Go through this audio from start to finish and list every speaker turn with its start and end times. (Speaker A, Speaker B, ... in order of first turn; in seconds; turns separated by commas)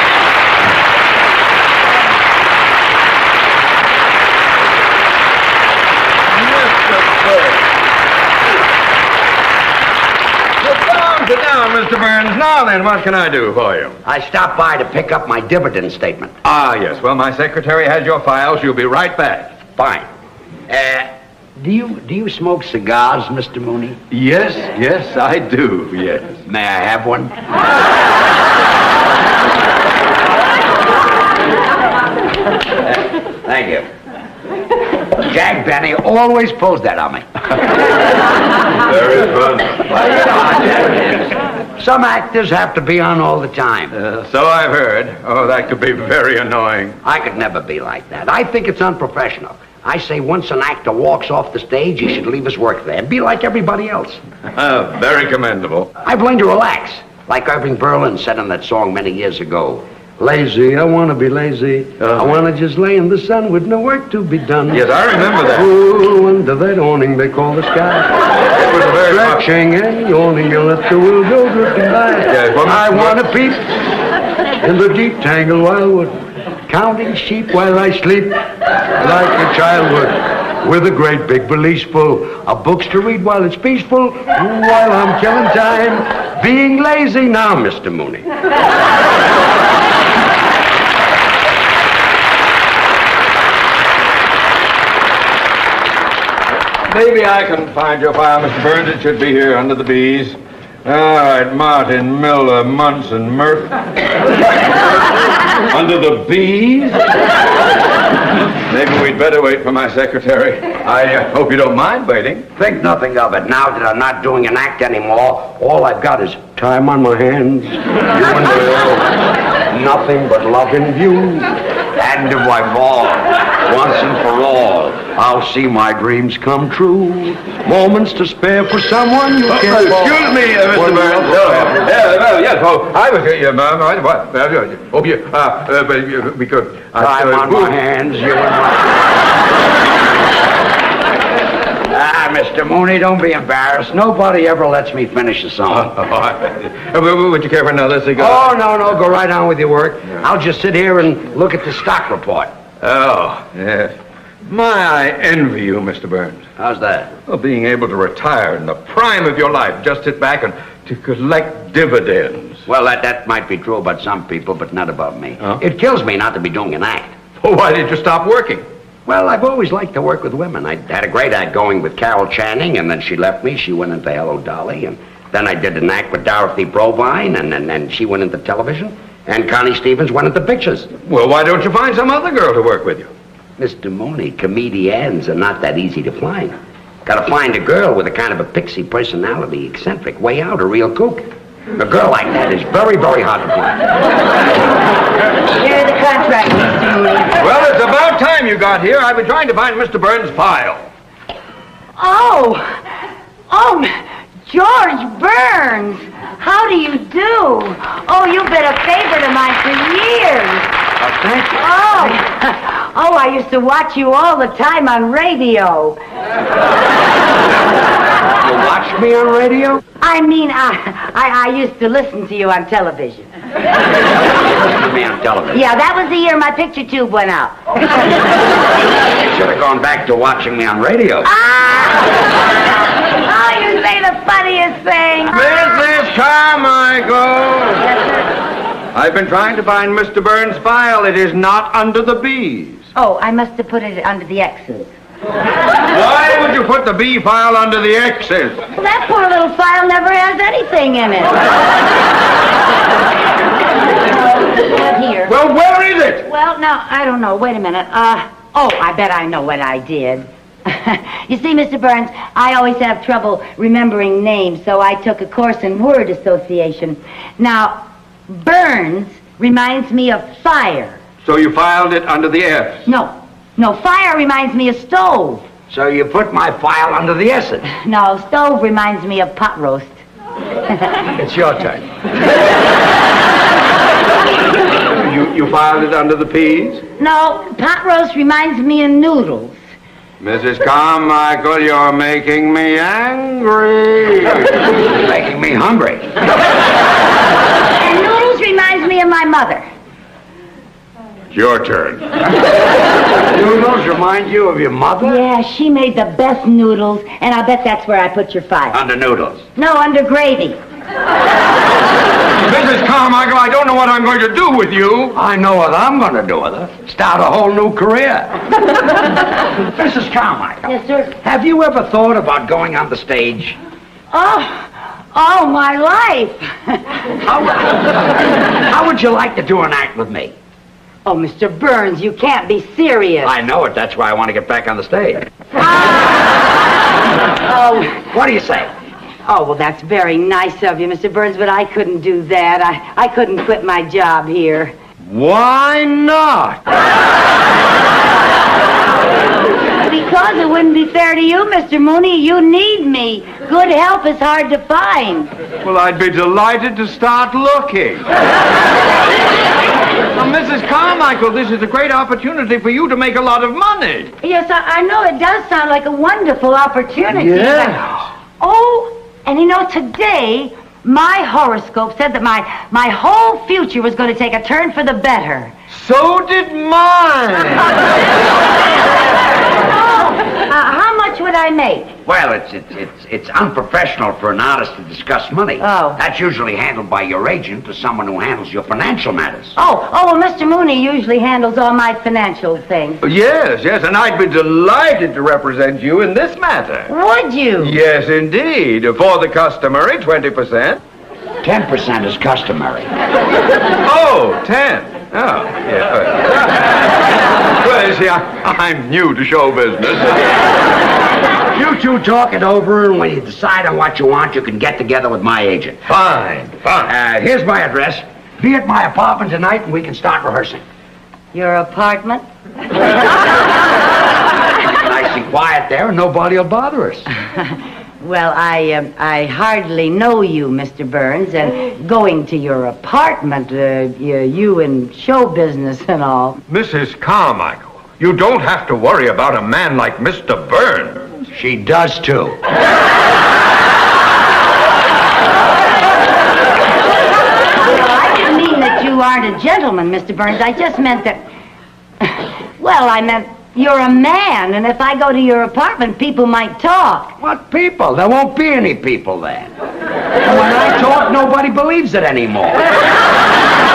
Speaker A: 6.3-7.6, Speaker A: 10.6-14.0, Speaker B: 14.0-16.3, Speaker A: 16.4-19.6, Speaker B: 19.8-20.1, Speaker B: 20.7-24.0, Speaker A: 24.1-26.4, Speaker B: 26.4-27.4, Speaker B: 32.8-33.9, Speaker B: 35.1-37.4, Speaker A: 38.8-39.9, Speaker B: 39.9-44.0, Speaker A: 43.9-47.0, Speaker B: 47.0-54.2, Speaker A: 54.5-55.9, Speaker B: 56.0-64.9, Speaker A: 62.0-62.3, Speaker A: 64.7-65.7, Speaker B: 65.5-68.2, Speaker A: 68.5-69.4, Speaker B: 68.9-73.7, Speaker A: 72.2-73.2, Speaker B: 74.6-78.4, Speaker B: 79.0-88.3, Speaker A: 96.9-103.8, Speaker A: 105.7-107.1, Speaker A: 108.6-112.5, Speaker B: 112.5-131.7, Speaker A: 129.5-137.7, Speaker B: 136.9-139.1, Speaker B: 141.8-145.9, Speaker A: 145.7-148.5, Speaker B: 148.2-152.5, Speaker A: 152.8-153.9, Speaker A: 154.4-156.4, Speaker B: 156.6-157.1, Speaker A: 157.2-162.6, Speaker B: 162.7-167.1, Speaker A: 167.4-168.6, Speaker B: 169.1-180.9, Speaker A: 181.0-183.1, Speaker B: 183.6-193.9, Speaker C: 195.6-197.3, Speaker A: 197.4-200.9, Speaker C: 202.0-202.8, Speaker C: 203.5-203.9, Speaker C: 204.5-210.7, Speaker B: 211.0-212.2, Speaker C: 211.6-216.0, Speaker B: 218.3-219.8, Speaker C: 220.0-223.3, Speaker B: 224.3-225.6, Speaker C: 225.5-227.6, Speaker B: 229.2-231.3, Speaker C: 231.2-232.3, Speaker C: 233.0-235.4, Speaker A: 235.3-237.9, Speaker A: 238.9-242.8, Speaker C: 242.9-244.9, Speaker A: 245.9-248.6, Speaker C: 248.7-251.5, Speaker C: 254.1-255.3, Speaker A: 255.3-256.3, Speaker C: 256.2-271.0, Speaker A: 271.2-272.8, Speaker C: 272.9-275.4, Speaker B: 275.7-277.6, Speaker C: 277.7-280.0, Speaker B: 281.1-281.9, Speaker A: 284.8-286.8, Speaker C: 287.0-289.6, Speaker A: 290.2-294.5, Speaker B: 294.8-296.1, Speaker C: 297.8-299.6, Speaker A: 301.3-302.1, Speaker B: 303.3-305.2, Speaker C: 305.0-308.8, Speaker B: 308.7-309.4, Speaker C: 309.6-310.6, Speaker A: 312.4-315.1, Speaker B: 315.1-318.4, Speaker B: 319.6-323.6, Speaker C: 320.6-321.1, Speaker C: 324.1-326.8, Speaker B: 327.2-330.3, Speaker C: 331.0-333.3, Speaker B: 333.2-335.3, Speaker C: 335.6-336.2, Speaker C: 337.4-338.0, Speaker B: 337.9-338.7, Speaker C: 339.3-344.7, Speaker A: 345.1-346.6, Speaker C: 349.8-355.3, Speaker A: 355.6-358.1, Speaker A: 360.1-364.1, Speaker C: 364.2-367.8, Speaker A: 367.1-368.1, Speaker C: 368.4-375.5, Speaker A: 375.7-377.9, Speaker C: 379.8-381.9, Speaker B: 382.1-389.5, Speaker C: 385.6-386.0, Speaker C: 389.6-393.0, Speaker A: 393.0-396.9, Speaker C: 396.9-397.8, Speaker A: 397.6-400.8, Speaker B: 401.4-402.9, Speaker A: 403.8-406.9, Speaker A: 407.6-410.4, Speaker B: 411.5-415.8, Speaker A: 415.9-416.9, Speaker B: 416.8-420.6, Speaker C: 421.3-422.2, Speaker B: 424.7-427.1, Speaker C: 428.0-436.4, Speaker A: 436.5-441.0, Speaker B: 441.3-442.4, Speaker C: 447.6-451.2, Speaker C: 452.0-457.2, Speaker B: 457.2-459.5, Speaker B: 460.2-462.7